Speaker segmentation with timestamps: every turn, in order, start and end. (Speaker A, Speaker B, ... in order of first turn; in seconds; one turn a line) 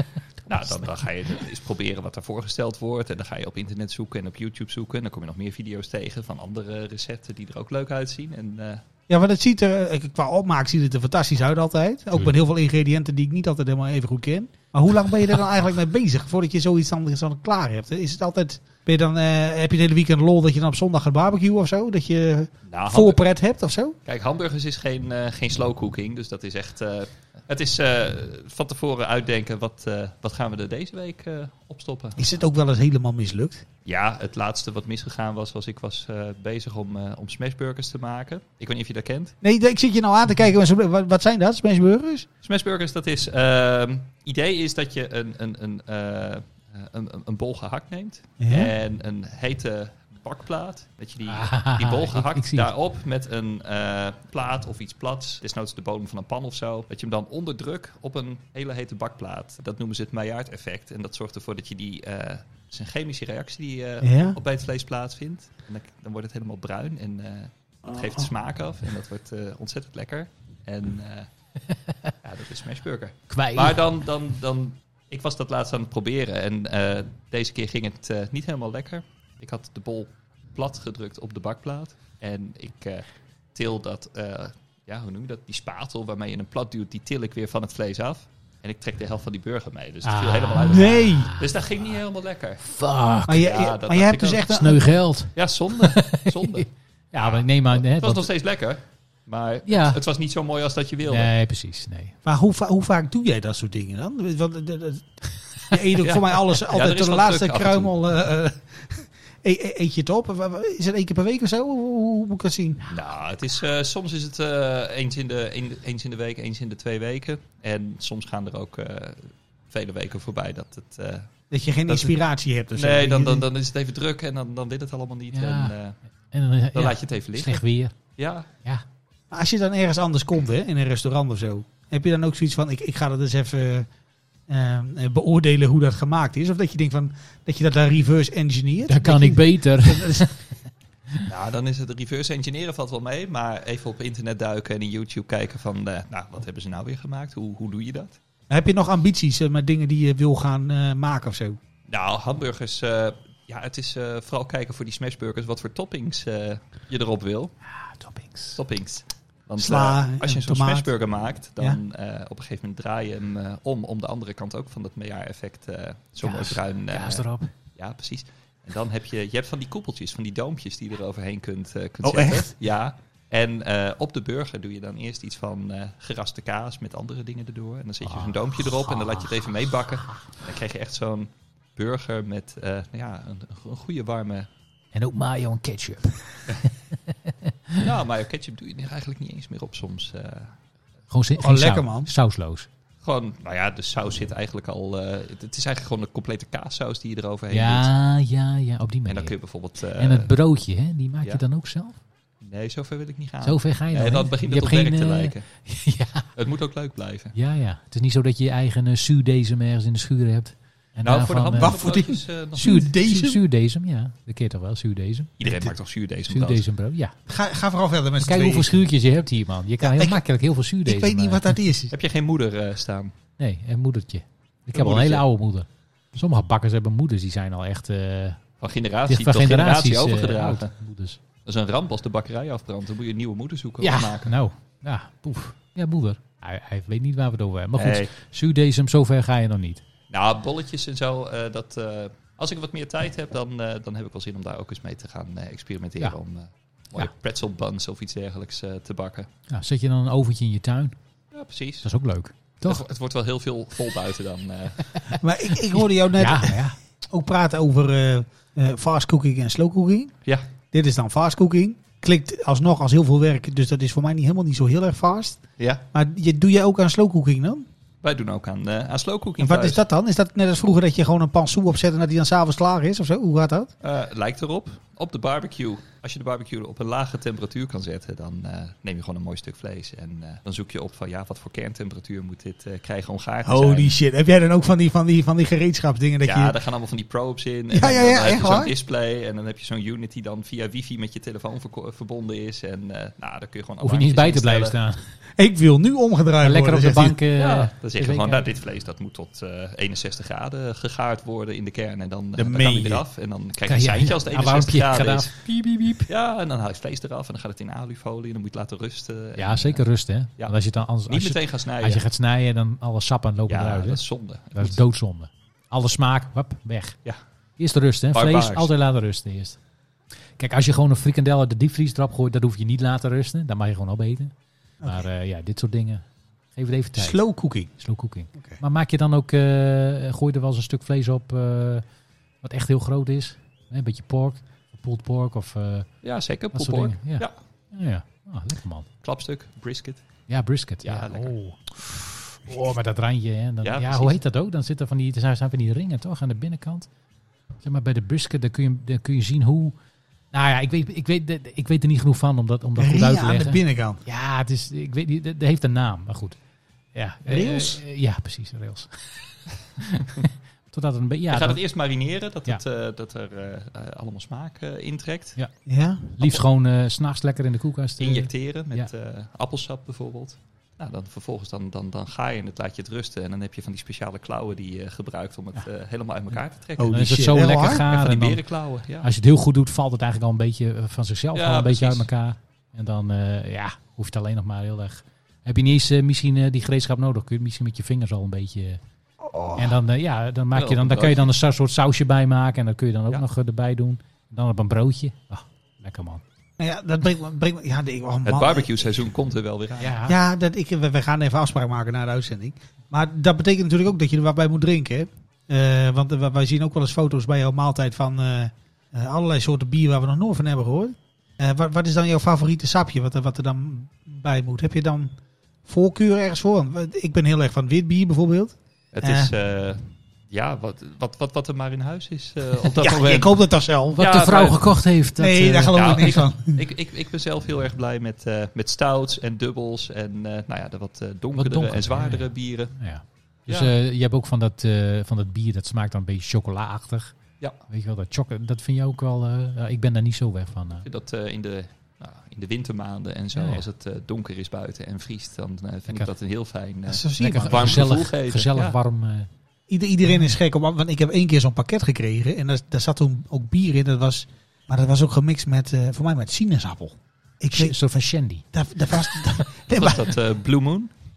Speaker A: 0.5-8.8
Speaker B: 9.1-24.0
Speaker A: 22.7-23.2
Speaker A: 24.1-32.2
Speaker B: 32.2-33.6
Speaker A: 33.9-39.3
Speaker B: 39.4-42.3
Speaker A: 42.4-71.3
Speaker B: 48.4-48.7
Speaker C: 51.3-52.7
Speaker B: 64.0-64.4
Speaker A: 72.2-92.6
Speaker C: 73.3-73.8
Speaker C: 90.0-91.5
Speaker B: 90.6-91.3
Speaker C: 92.7-93.4
Speaker B: 93.3-94.8
Speaker A: 93.3-94.6
Speaker C: 94.5-98.3
Speaker A: 95.3-96.7
Speaker A: 97.2-101.3
Speaker C: 99.7-100.0
Speaker C: 101.1-102.1
Speaker B: 102.2-105.0
Speaker B: 105.7-112.8
Speaker A: 106.0-107.9
Speaker A: 112.9-121.3
Speaker B: 121.5-123.5
Speaker A: 121.9-122.2
Speaker A: 122.7-126.0
Speaker C: 125.3-125.7
Speaker C: 126.3-128.0
Speaker A: 126.7-127.6
Speaker A: 128.2-128.5
Speaker B: 129.3-133.9
Speaker B: 134.5-140.3
Speaker C: 138.9-140.4
Speaker A: 141.3-148.2
Speaker B: 148.5-151.6
Speaker A: 151.9-157.6
Speaker C: 157.7-158.6
Speaker A: 158.6-167.2
Speaker B: 159.6-160.9
Speaker C: 166.2-167.5
Speaker A: 167.8-184.5
Speaker B: 172.0-172.5
Speaker C: 178.0-179.5
Speaker C: 184.9-187.8
Speaker A: 187.8-190.6
Speaker C: 191.1-192.7
Speaker B: 191.4-192.1
Speaker A: 193.0-197.9
Speaker C: 197.5-199.3
Speaker A: 199.1-200.3
Speaker C: 199.9-202.0
Speaker A: 202.4-205.5
Speaker C: 203.4-206.3
Speaker A: 206.4-207.3
Speaker C: 207.3-211.8
Speaker A: 211.1-212.8
Speaker B: 211.6-213.4
Speaker C: 212.6-215.8
Speaker A: 215.4-216.7
Speaker C: 216.3-217.1
Speaker B: 217.3-218.8
Speaker C: 218.2-221.4
Speaker B: 219.8-220.2
Speaker B: 220.8-221.9
Speaker A: 221.9-223.1
Speaker C: 223.4-228.4
Speaker A: 224.7-225.2
Speaker A: 228.6-230.7
Speaker C: 229.1-231.2
Speaker A: 231.4-234.3
Speaker C: 233.8-239.8
Speaker A: 237.8-238.1
Speaker A: 240.1-249.3
Speaker C: 249.5-251.0
Speaker A: 251.3-251.9
Speaker C: 251.8-252.8
Speaker A: 252.6-254.8
Speaker B: 255.2-256.6
Speaker C: 256.1-256.8
Speaker B: 257.1-260.1
Speaker B: 260.7-265.4
Speaker B: 265.9-267.7
Speaker A: 268.0-269.8
Speaker B: 269.4-273.7
Speaker A: 273.8-283.9
Speaker B: 283.4-286.5
Speaker A: 286.2-294.8
Speaker B: 287.7-288.7
Speaker C: 293.8-295.0
Speaker B: 295.4-297.2
Speaker C: 296.4-298.4
Speaker A: 297.4-305.4
Speaker B: 302.4-303.0
Speaker C: 303.6-306.1
Speaker A: 306.1-309.8
Speaker C: 309.4-314.0
Speaker A: 311.1-312.0
Speaker A: 313.5-314.8
Speaker C: 314.6-317.0
Speaker C: 317.6-319.6
Speaker A: 318.1-318.7
Speaker C: 320.4-324.3
Speaker C: 324.8-326.0
Speaker C: 326.6-327.2
Speaker B: 327.0-327.7
Speaker C: 327.8-331.8
Speaker B: 328.4-328.6
Speaker C: 332.4-335.9
Speaker A: 336.0-337.3
Speaker C: 336.5-338.9
Speaker A: 339.0-340.0
Speaker C: 340.3-341.6
Speaker A: 340.8-341.3
Speaker C: 342.5-346.9
Speaker A: 343.6-344.2
Speaker C: 347.6-349.8
Speaker C: 350.3-356.4
Speaker B: 352.8-354.0
Speaker C: 356.9-359.1
Speaker B: 357.3-357.8
Speaker C: 359.8-361.6
Speaker A: 361.3-365.4
Speaker B: 365.7-366.1
Speaker C: 366.2-368.9
Speaker A: 368.0-379.1
Speaker B: 376.8-377.8
Speaker C: 376.9-378.4
Speaker C: 379.0-388.8
Speaker A: 381.4-382.1
Speaker B: 389.2-389.8
Speaker C: 389.6-396.2
Speaker A: 390.6-391.3
Speaker B: 396.6-398.9
Speaker A: 398.3-399.9
Speaker C: 399.8-400.1
Speaker B: 400.0-415.1
Speaker B: 415.7-419.3
Speaker A: 418.9-423.4
Speaker B: 422.8-424.0
Speaker C: 423.9-426.1
Speaker A: 424.0-424.6
Speaker B: 425.2-426.6
Speaker A: 425.8-432.8
Speaker C: 431.3-437.1
Speaker A: 433.5-433.7
Speaker C: 437.7-440.9
Speaker A: 440.8-448.8
Speaker C: 443.4-443.6
Speaker B: 446.9-447.9
Speaker C: 447.2-449.3
Speaker B: 449.7-457.8
Speaker C: 457.5-458.4
Speaker B: 458.5-460.1
Speaker A: 459.8-460.9